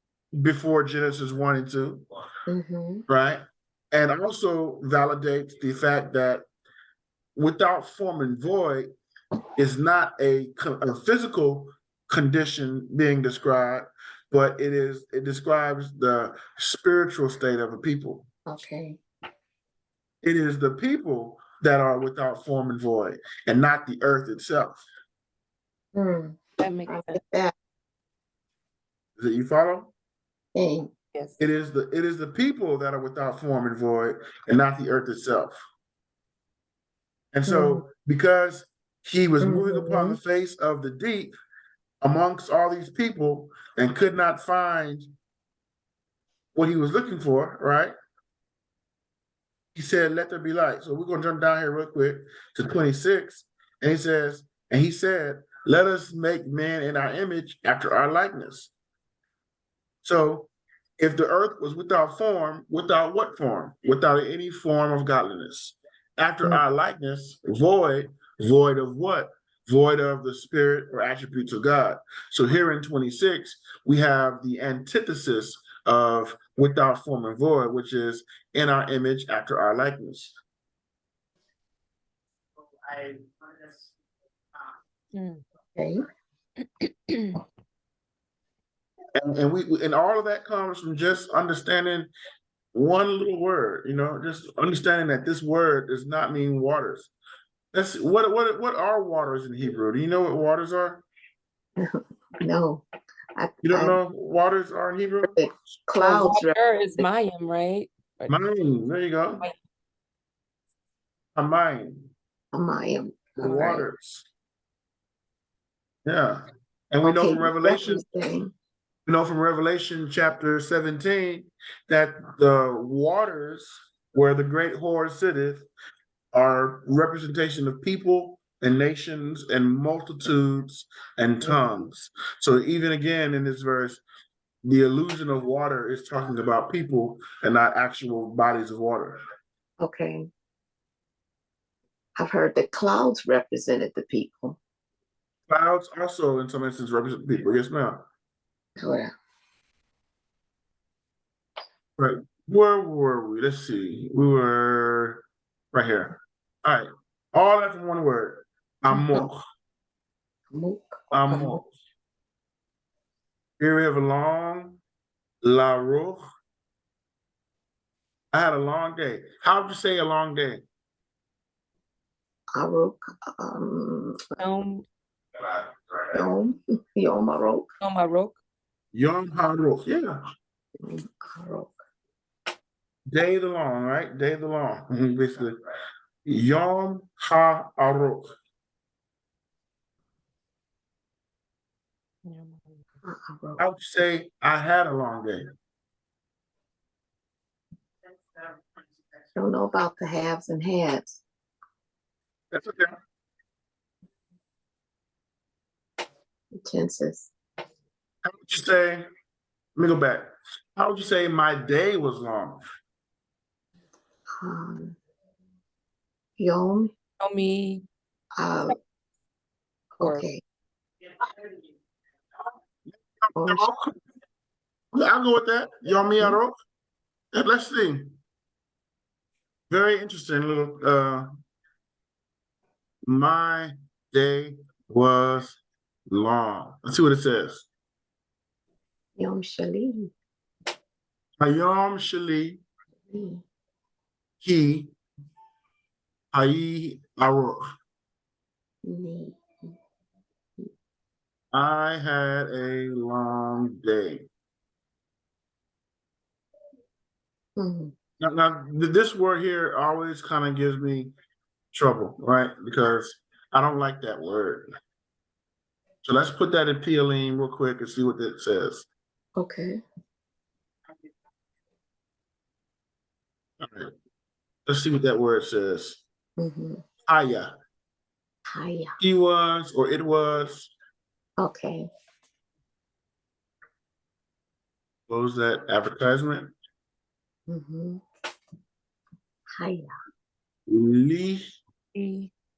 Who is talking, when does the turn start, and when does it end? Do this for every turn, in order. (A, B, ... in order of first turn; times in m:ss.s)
0:00.3-0:02.0 A
0:02.5-0:03.0 B
0:03.1-0:06.4 A
0:07.4-0:08.9 A
0:09.6-0:18.2 A
0:18.5-0:19.0 B
0:20.2-0:24.8 A
0:25.9-0:27.5 B
0:26.6-0:27.2 C
0:29.2-0:29.9 A
0:30.5-0:30.9 B
0:31.1-0:31.4 C
0:31.4-0:35.6 A
0:37.3-0:41.3 A
0:37.4-0:37.8 B
0:39.4-0:40.2 B
0:42.0-0:45.1 A
0:46.5-0:47.9 A
0:49.7-0:58.7 A
1:00.0-1:00.5 A
1:01.0-1:20.3 A
1:25.1-1:25.4 C
1:25.8-1:26.0 B
1:26.8-1:27.4 C
1:29.2-1:32.1 A
1:32.7-1:37.1 A
1:37.7-1:41.0 A
1:41.8-1:44.0 B
1:43.6-1:45.4 A
1:45.2-1:46.6 B
1:46.0-1:48.4 C
1:48.3-1:49.4 A
1:51.4-1:52.1 A
1:52.5-1:53.9 B
1:53.4-1:54.3 A
1:56.0-1:58.0 A
1:57.0-1:58.5 B
1:59.0-2:05.6 A
2:06.3-2:14.0 A
2:14.6-2:19.2 A
2:19.8-2:20.3 B
2:22.2-2:24.6 B
2:25.5-2:28.0 A
2:28.8-2:29.1 B
2:32.0-2:39.4 A
2:38.9-2:39.3 B
2:40.5-2:41.6 B
2:41.1-2:41.7 A
2:43.6-2:44.8 A
2:45.4-2:46.2 A
2:48.3-2:50.6 A
2:52.5-2:54.2 B
2:54.4-2:54.8 C
2:56.1-2:57.7 B
2:57.8-2:58.3 C
2:58.9-3:00.2 A
3:00.8-3:01.8 B
3:03.1-3:05.6 A
3:06.2-3:08.3 A
3:12.2-3:12.8 C
3:13.0-3:13.6 B
3:13.6-3:15.5 A
3:19.4-3:21.2 B
3:22.5-3:22.9 A
3:26.6-3:27.3 B
3:28.2-3:29.0 A
3:29.8-3:32.6 A
3:34.4-3:35.0 B
3:36.4-3:36.9 B
3:37.2-3:37.8 C
3:38.4-3:38.8 B
3:40.0-3:40.4 B
3:40.0-3:40.3 C
3:42.8-3:44.0 A
3:43.4-3:43.7 B
3:44.9-3:46.5 A
3:47.3-3:48.2 A
3:49.7-3:51.3 A
3:53.0-3:57.7 A
3:59.2-4:00.1 B
4:01.4-4:02.6 A
4:03.1-4:03.4 B
4:04.4-4:04.9 A
4:06.3-4:07.6 A
4:08.8-4:09.7 B
4:11.5-4:14.3 A
4:17.6-4:17.9 B
4:18.2-4:21.1 A
4:21.7-4:24.7 A
4:26.0-4:28.9 A
4:29.4-4:29.8 B
4:33.6-4:33.9 A
4:34.6-4:36.0 A
4:36.4-4:36.8 B
4:37.1-4:37.5 A
4:38.5-4:38.9 B
4:39.0-4:40.7 A
4:41.4-4:41.9 B
4:45.1-4:46.5 A
4:47.5-4:48.0 B
4:49.6-4:49.9 B
4:50.7-4:51.4 A
4:51.9-4:52.3 C